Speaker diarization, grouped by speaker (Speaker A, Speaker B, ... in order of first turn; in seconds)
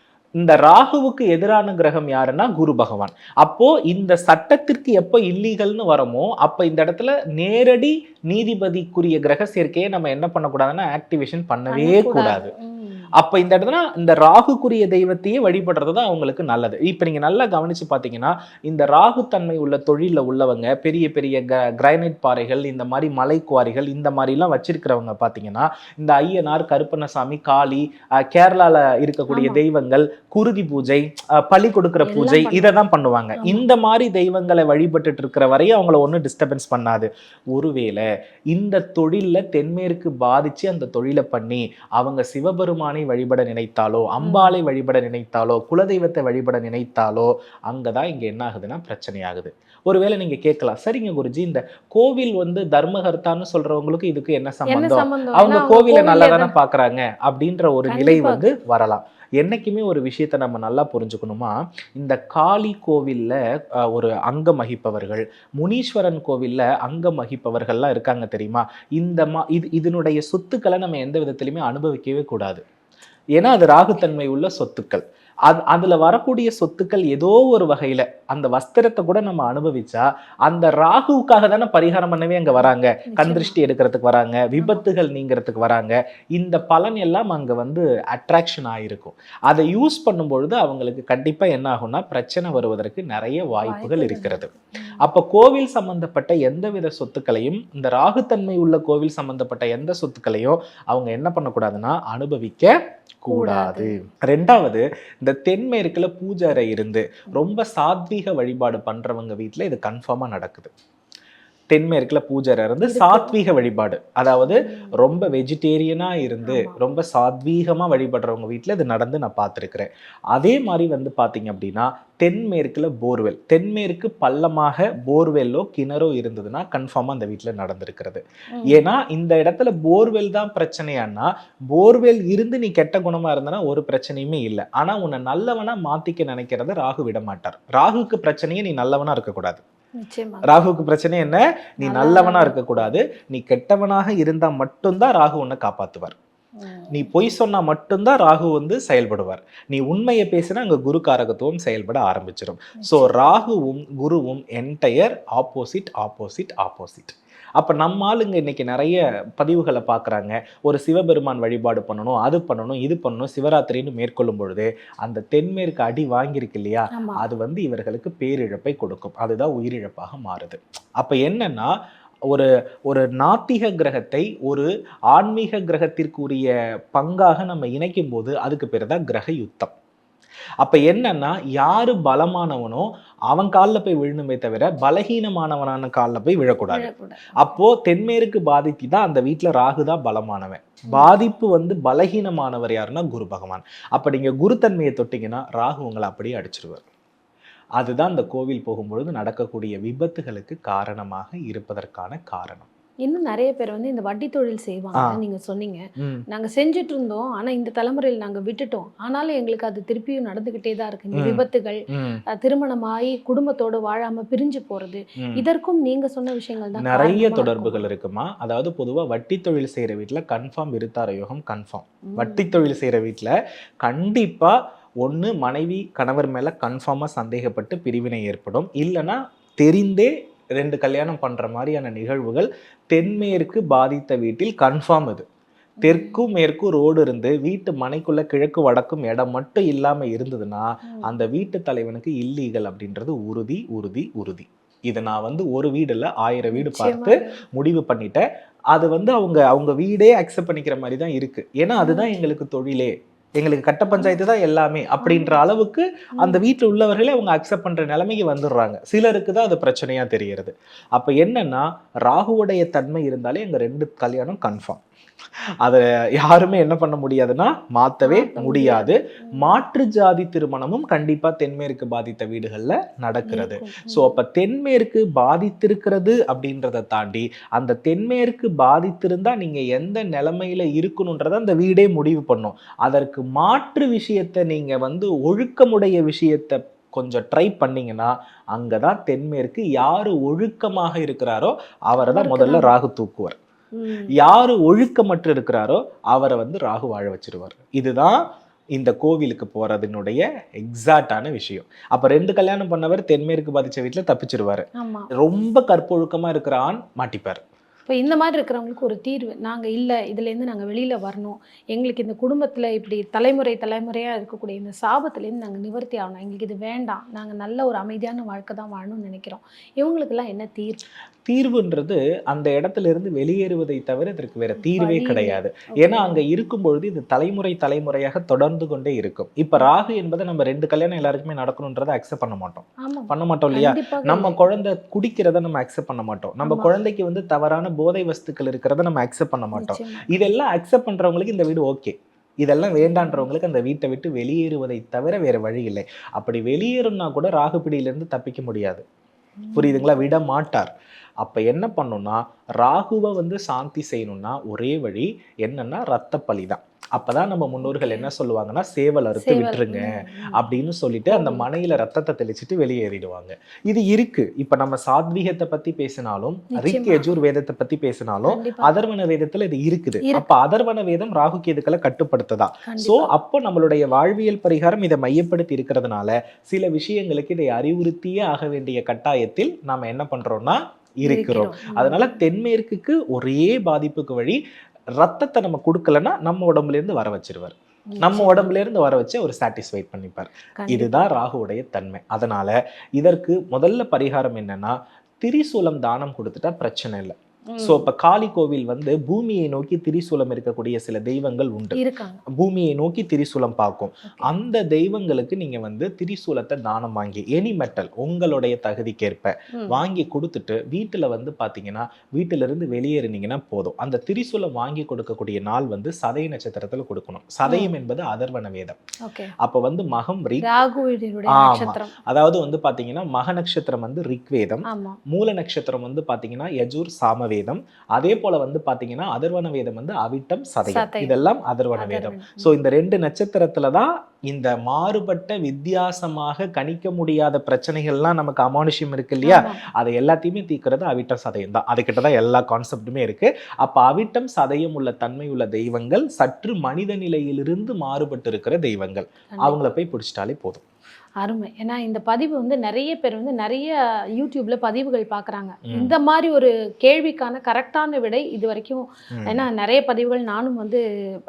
Speaker A: 0.4-12.5, 13.2-63.4, 63.9-72.6, 73.4-110.7, 111.7-139.6, 140.5-146.2, 146.9-171.7, 172.3-179.7, 180.6-196.8, 197.8-202.7, 206.0-206.2, 211.1-212.2, 216.8-235.2, 235.8-264.8, 265.6-293.4, 294.2-298.2, 298.8-304.6, 305.2-307.4, 321.3-348.8, 349.6-350.7, 351.2-384.4, 385.0-401.8, 402.4-418.8, 419.4-420.5, 421.3-450.6, 455.7-456.0, 459.1-459.5
Speaker B: 11.7-13.1, 29.3-29.6, 32.0-32.7, 44.2-44.6, 54.7-56.5, 57.9-58.5, 82.6-83.6, 84.6-84.8, 93.6-95.0, 103.3-104.0, 112.8-113.3, 114.5-114.9, 116.4-116.8, 128.6-128.8, 140.0-140.5, 141.8-142.7, 146.6-147.1, 152.8-153.4, 166.9-167.2, 186.7-187.6, 203.1-211.8, 212.3-217.8, 222.1-222.6, 235.8-236.2, 246.5-247.3, 251.8-252.1, 253.9-254.2, 255.0-255.4, 268.1-268.9, 273.3-274.1, 292.0-292.8, 293.7-294.1, 304.8-305.1, 307.9-320.8, 324.6-326.2, 332.8-334.4, 336.4-336.7, 339.6-340.1, 342.8-343.3, 349.4-349.9, 357.6-358.1, 359.2-360.4, 361.1-361.5, 366.5-367.1, 368.3-368.7, 372.7-373.1, 381.1-382.2, 387.9-388.5, 390.6-391.1, 397.5-397.9, 401.8-402.2, 417.5-417.7, 419.1-419.3, 420.4-421.9, 424.7-425.0, 430.7-431.1, 431.8-432.5, 439.2-439.6, 451.2-460.8